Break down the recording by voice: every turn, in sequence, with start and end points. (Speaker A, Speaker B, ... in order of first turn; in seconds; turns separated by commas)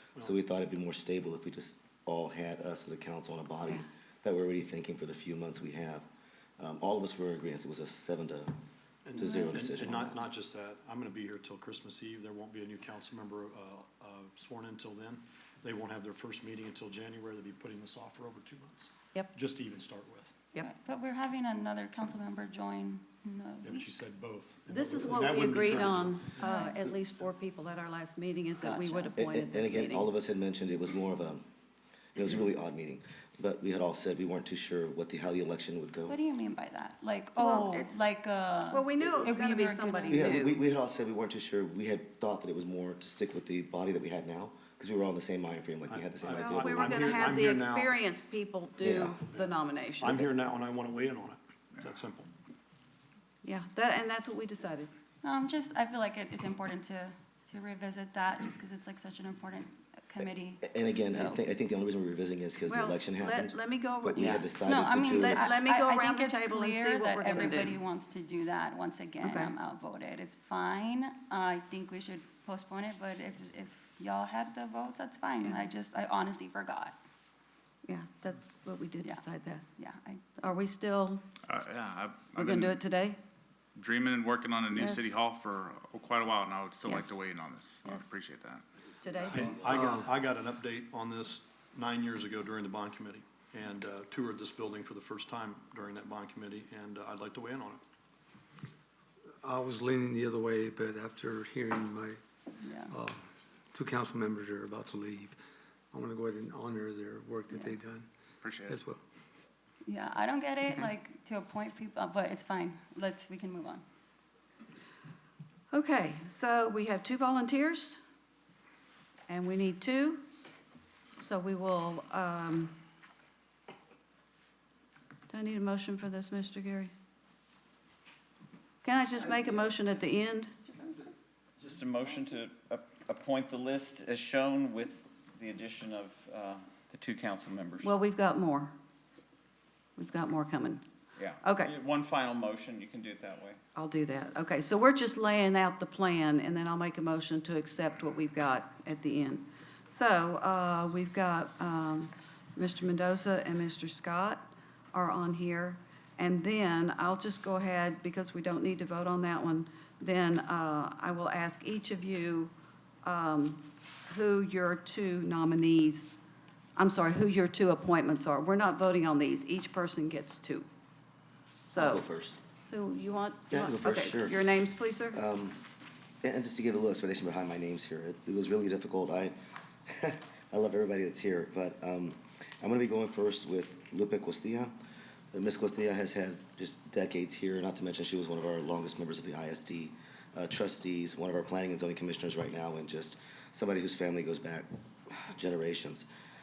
Speaker A: 0.2-6.0, Speaker A: 6.6-8.5, Speaker B: 9.0-20.3, Speaker A: 9.1-10.2, Speaker C: 20.6-23.9, Speaker B: 23.6-26.6, Speaker D: 24.7-30.1, Speaker C: 26.4-26.8, Speaker C: 28.6-29.1, Speaker A: 29.2-31.4, Speaker A: 32.1-36.2, Speaker C: 36.1-40.3, Speaker D: 37.4-38.1, Speaker D: 38.7-40.6, Speaker A: 40.1-47.2, Speaker B: 45.9-48.0, Speaker D: 46.4-50.2, Speaker A: 48.8-49.1, Speaker B: 50.0-52.3, Speaker D: 53.4-54.9, Speaker C: 55.2-61.4, Speaker A: 60.6-65.5, Speaker D: 62.7-67.7, Speaker C: 64.2-77.0, Speaker A: 67.3-67.7, Speaker D: 69.2-69.5, Speaker D: 77.8-79.7, Speaker C: 79.8-80.3, Speaker D: 80.4-81.2, Speaker E: 81.5-82.8, Speaker D: 82.3-83.2, Speaker E: 83.8-88.6, Speaker D: 84.7-85.1, Speaker D: 86.8-87.3, Speaker D: 87.8-88.2, Speaker D: 89.0-89.8, Speaker B: 89.3-97.8, Speaker F: 99.4-102.2, Speaker C: 102.6-102.9, Speaker F: 102.9-105.4, Speaker F: 105.9-108.1, Speaker E: 108.4-108.8, Speaker F: 108.7-109.0, Speaker C: 109.8-113.8, Speaker D: 115.7-118.0, Speaker D: 119.3-120.2, Speaker D: 121.2-122.8, Speaker D: 125.3-126.9, Speaker D: 128.8-130.5, Speaker G: 131.6-137.9, Speaker D: 137.8-138.7, Speaker D: 140.0-140.8, Speaker G: 141.2-143.6, Speaker D: 141.4-141.7, Speaker D: 143.8-162.5, Speaker D: 163.0-166.2, Speaker D: 166.8-170.7, Speaker D: 171.7-172.0, Speaker A: 171.8-172.4, Speaker D: 172.7-175.2, Speaker A: 173.5-174.4, Speaker A: 175.1-175.6, Speaker A: 176.2-179.3, Speaker A: 179.9-184.8, Speaker A: 185.3-196.1